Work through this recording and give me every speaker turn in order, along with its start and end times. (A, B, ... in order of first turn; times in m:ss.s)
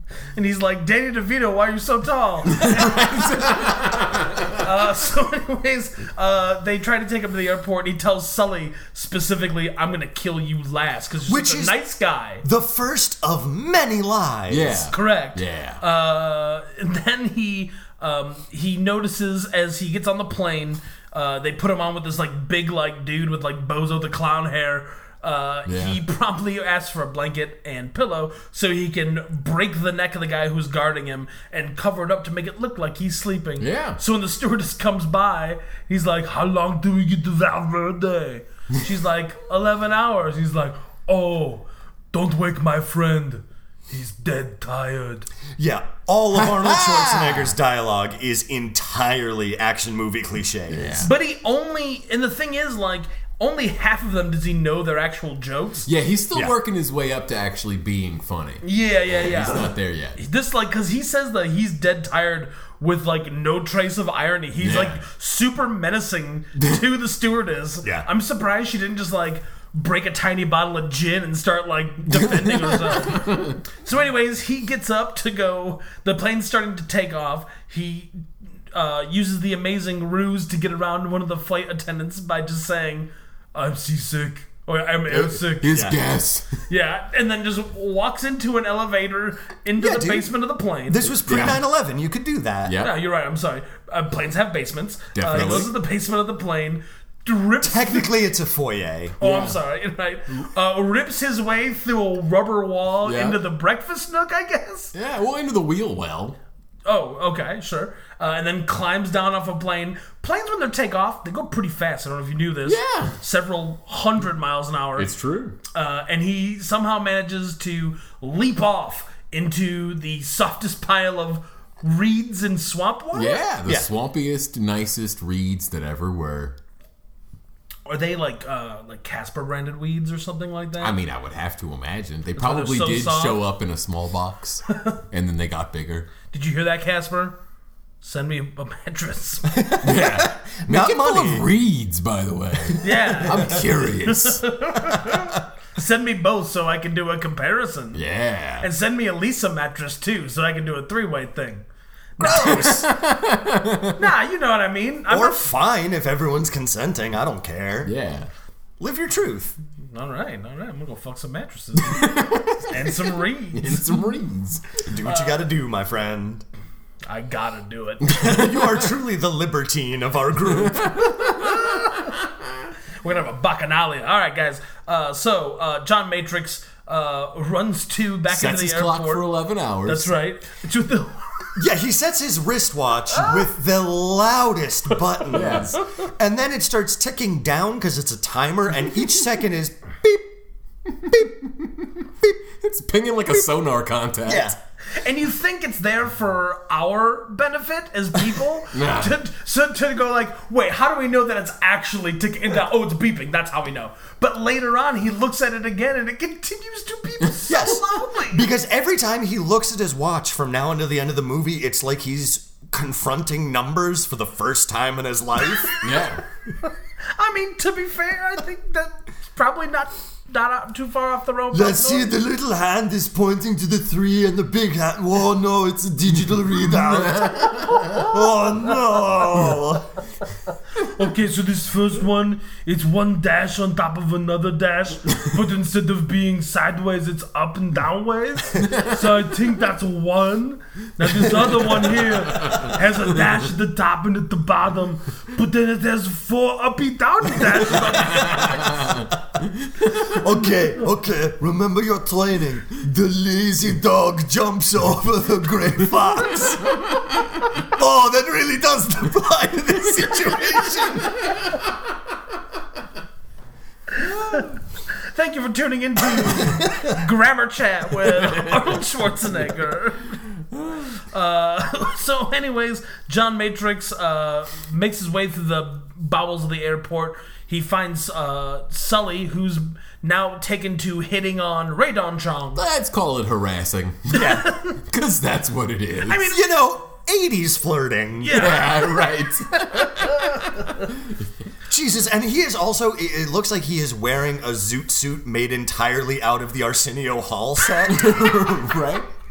0:00.3-0:03.5 A
0:02.5-0:04.6 B
0:04.6-0:12.4 A
0:11.3-0:11.7 C
0:12.4-0:14.9 C
0:14.5-0:15.8 B
0:14.9-0:45.3 A
0:25.6-0:26.0 B
0:33.6-0:34.0 B
0:45.6-0:51.0 C
0:46.3-0:47.5 B
0:50.7-0:51.1 B
0:51.0-0:55.9 A
0:55.8-1:00.2 B
0:58.6-1:25.8 A
1:04.6-1:05.0 B
1:12.1-1:13.6 B
1:25.1-1:26.6 B
1:25.7-1:26.0 C
1:26.7-1:31.1 A
1:29.8-1:30.3 C
1:30.9-1:32.8 C
1:31.2-1:31.6 B
1:32.6-1:32.9 B
1:32.8-1:38.1 A
1:35.1-1:35.7 B
1:35.3-1:35.7 C
1:37.6-1:39.2 C
1:39.2-1:44.9 A
1:39.2-1:39.6 B
1:43.0-1:43.4 B
1:44.9-1:46.4 B
1:46.8-1:55.1 A
1:52.6-1:53.2 B
1:55.0-1:55.6 B
1:55.7-2:03.4 A
2:03.1-2:06.6 B
2:07.8-2:10.9 A
2:10.8-2:16.1 B
2:12.4-2:13.4 A
2:16.3-2:17.4 A
2:18.0-2:19.5 A
2:19.4-2:21.5 C
2:19.8-2:24.4 B
2:22.8-2:28.0 A
2:23.3-2:23.5 C
2:27.9-2:28.7 B
2:28.6-2:31.6 A
2:32.2-2:32.7 A
2:32.2-2:32.9 C
2:32.3-2:34.0 B
2:34.0-2:35.4 A
2:35.1-2:37.9 C
2:37.8-2:38.3 B
2:38.8-2:39.5 C
2:39.9-2:43.9 A
2:41.8-2:44.8 B
2:44.8-2:46.4 C
2:45.0-2:45.4 A
2:47.1-2:48.1 A
2:48.0-2:48.8 B
2:48.1-2:51.2 C
2:50.6-2:51.8 B
2:51.4-2:52.1 A
2:53.0-2:59.2 A
2:58.3-3:00.1 B
2:59.8-3:01.2 A
3:01.6-3:10.3 C
3:05.3-3:05.8 B
3:11.0-3:11.8 B
3:12.6-3:14.5 B
3:14.2-3:14.6 C
3:14.9-3:28.5 A
3:18.7-3:19.2 B
3:27.5-3:35.8 C
3:35.8-3:36.2 B
3:37.1-3:42.1 A
3:41.5-3:49.9 C
3:46.7-3:48.1 B
3:50.8-4:08.9 A
3:58.6-3:59.0 B
4:01.8-4:03.0 B
4:07.8-4:09.1 B
4:09.9-4:16.8 C
4:17.6-4:21.2 C
4:23.9-4:30.2 A
4:26.2-4:27.0 C
4:28.1-4:28.8 B
4:30.8-4:42.6 A
4:42.6-4:46.3 B
4:44.1-4:44.5 C
4:44.1-4:44.8 A
4:46.1-4:46.4 A
4:46.3-4:48.5 C
4:48.2-4:48.8 A
4:48.3-4:51.2 B
4:49.7-4:50.9 A
4:51.7-4:58.3 C
4:57.9-4:59.1 B